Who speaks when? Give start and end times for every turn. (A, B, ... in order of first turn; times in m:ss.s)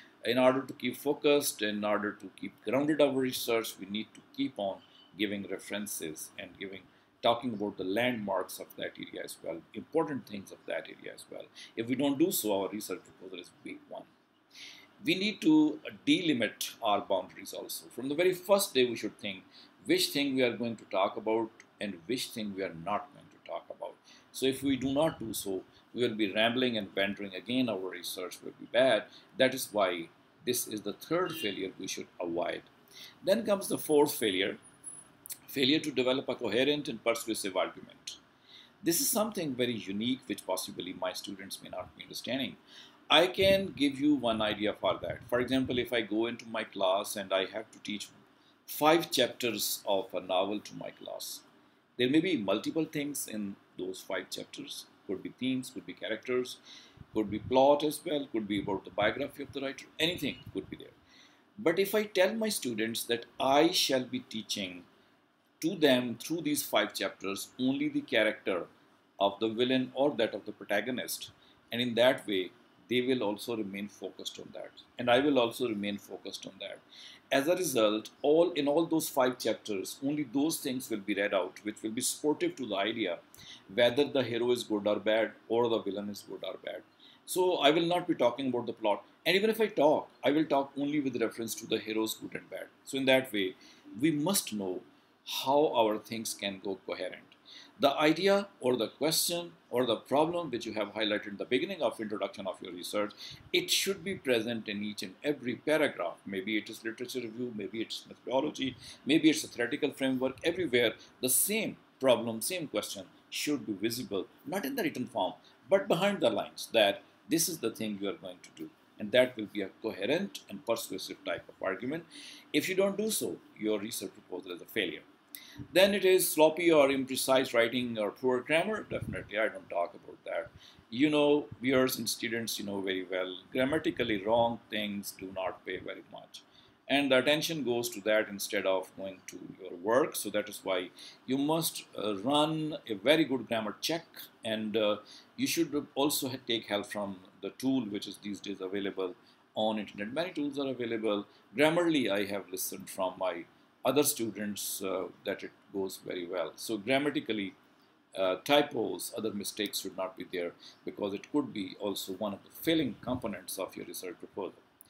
0:00.2-0:14.1 A
0:15.0-0:32.7 A
0:33.2-0:34.6 A
0:35.5-0:38.2 A
0:38.8-0:42.6 A
0:43.1-0:51.4 A
0:52.0-0:56.6 A
0:57.1-1:01.0 A
1:01.6-1:04.9 A
1:05.6-1:08.7 A
1:09.2-2:05.0 A
2:05.7-2:37.6 A
2:38.1-2:44.6 A